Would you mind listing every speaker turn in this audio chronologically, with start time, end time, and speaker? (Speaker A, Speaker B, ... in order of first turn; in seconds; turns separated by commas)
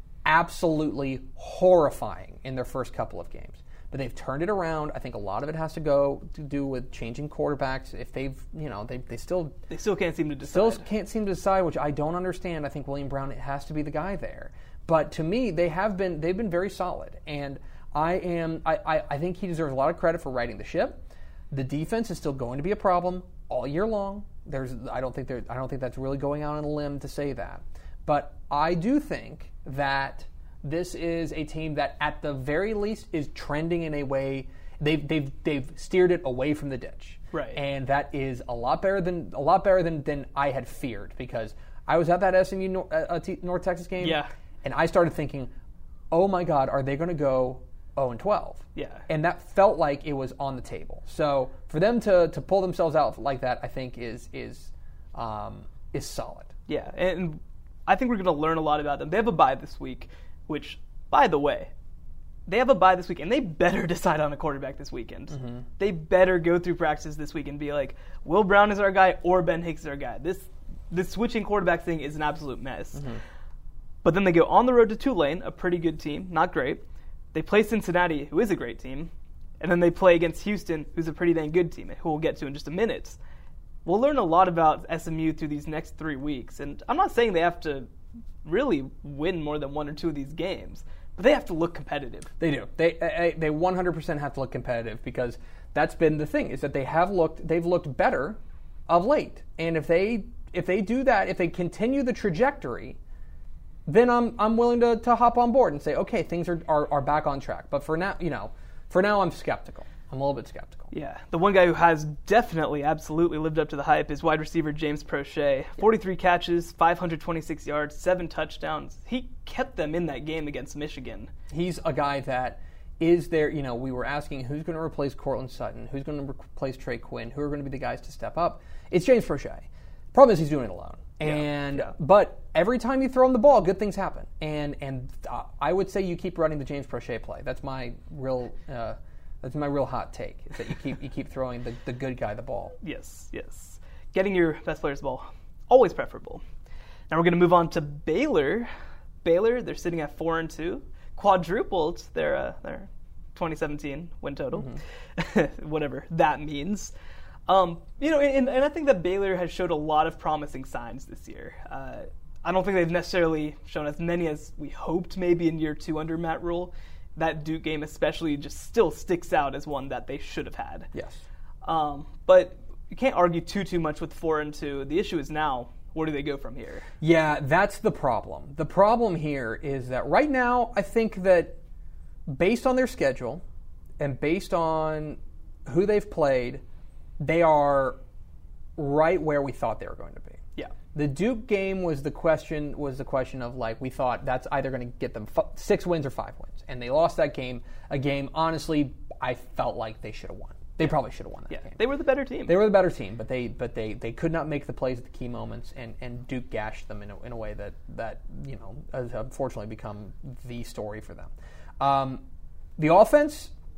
Speaker A: 0.2-9.6, Speaker B: 9.7-10.8, Speaker A: 10.5-45.5, Speaker B: 37.3-37.6, Speaker B: 44.0-44.3, Speaker A: 46.1-56.5, Speaker B: 48.8-49.0, Speaker B: 56.7-61.7, Speaker B: 62.5-73.1, Speaker A: 65.3-65.6, Speaker B: 74.0-76.8, Speaker B: 77.3-83.2, Speaker B: 83.8-87.9, Speaker B: 88.4-92.3, Speaker A: 92.4-103.0, Speaker A: 103.9-110.9, Speaker B: 110.9-121.3, Speaker A: 121.5-142.8, Speaker B: 131.3-131.9, Speaker B: 142.8-146.4, Speaker B: 147.1-148.7, Speaker B: 149.2-156.9, Speaker B: 157.5-170.9, Speaker A: 170.9-171.2, Speaker B: 171.6-176.9, Speaker A: 177.0-181.6, Speaker A: 182.3-183.4, Speaker A: 184.0-186.6, Speaker A: 187.2-188.0, Speaker A: 188.8-190.4, Speaker A: 190.9-201.8, Speaker B: 201.5-202.6, Speaker A: 202.5-212.2, Speaker A: 212.8-213.5